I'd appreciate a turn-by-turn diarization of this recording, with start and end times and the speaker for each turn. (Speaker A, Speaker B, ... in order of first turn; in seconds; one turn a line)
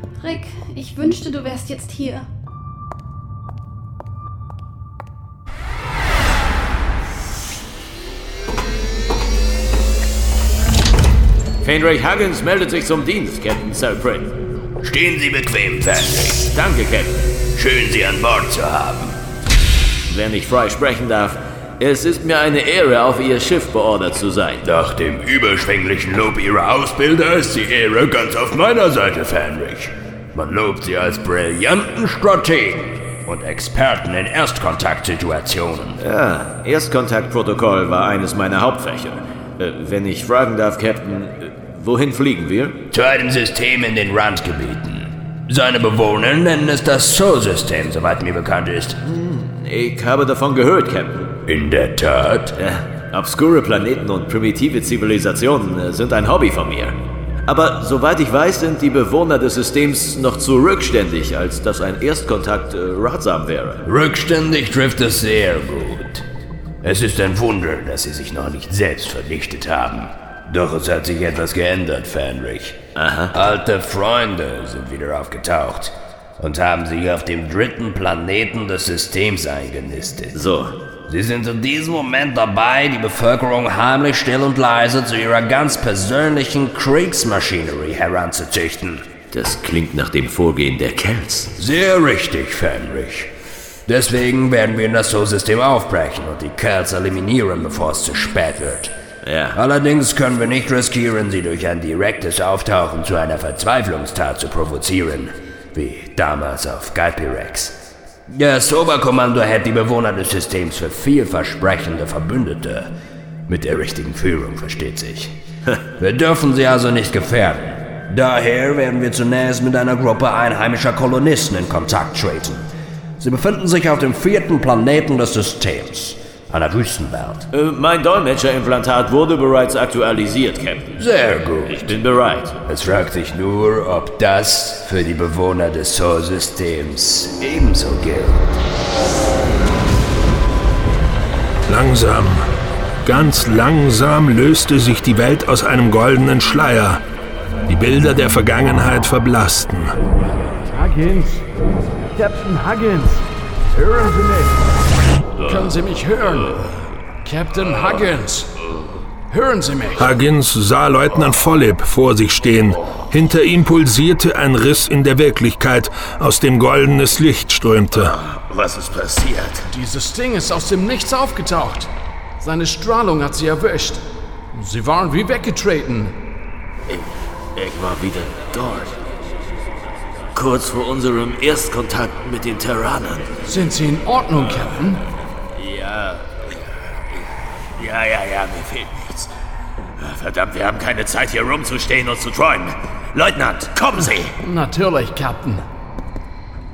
Speaker A: 0.2-2.2
Speaker B: 11.6-14.3
Speaker C: 14.8-16.4
Speaker B: 16.3-17.2
Speaker C: 17.6-19.2
Speaker B: 20.1-24.6
Speaker C: 24.6-36.0
Speaker B: 36.0-42.8
Speaker C: 42.9-49.0
Speaker B: 49.1-51.4
Speaker C: 51.5-52.5
Speaker B: 52.6-57.0
Speaker B: 57.5-63.8
Speaker C: 63.9-66.2
Speaker C: 66.8-72.8
Speaker B: 73.0-73.3
Speaker C: 73.3-80.4
Speaker B: 80.3-80.8
Speaker C: 81.1-89.1
Speaker B: 89.3-91.5
Speaker C: 91.6-93.3
Speaker C: 93.9-98.9
Speaker B: 99.2-99.6
Speaker C: 99.5-112.9
Speaker C: 113.5-115.3
Speaker C: 116.0-122.7
Speaker C: 123.2-127.5
Speaker B: 127.5-132.5
Speaker C: 131.0-131.9
Speaker C: 132.7-138.4
Speaker D: 141.7-142.5
Speaker D: 143.0-147.0
Speaker D: 147.7-149.9
Speaker E: 150.7-151.4
Speaker E: 152.2-153.2
Speaker E: 153.7-154.6
Speaker B: 155.4-156.7
Speaker E: 155.4-156.6
Speaker E: 157.2-158.5
Speaker B: 157.6-158.1
Speaker B: 158.7-159.0
Speaker E: 159.3-160.2
Speaker D: 160.0-168.1
Speaker B: 167.9-169.6
Speaker E: 169.7-176.1
Speaker B: 176.9-179.0
Speaker B: 180.3-183.4
Speaker E: 183.5-185.0
Speaker B: 185.6-186.6
Speaker B: 187.8-189.3
Speaker B: 190.0-194.3
Speaker E: 194.4-195.6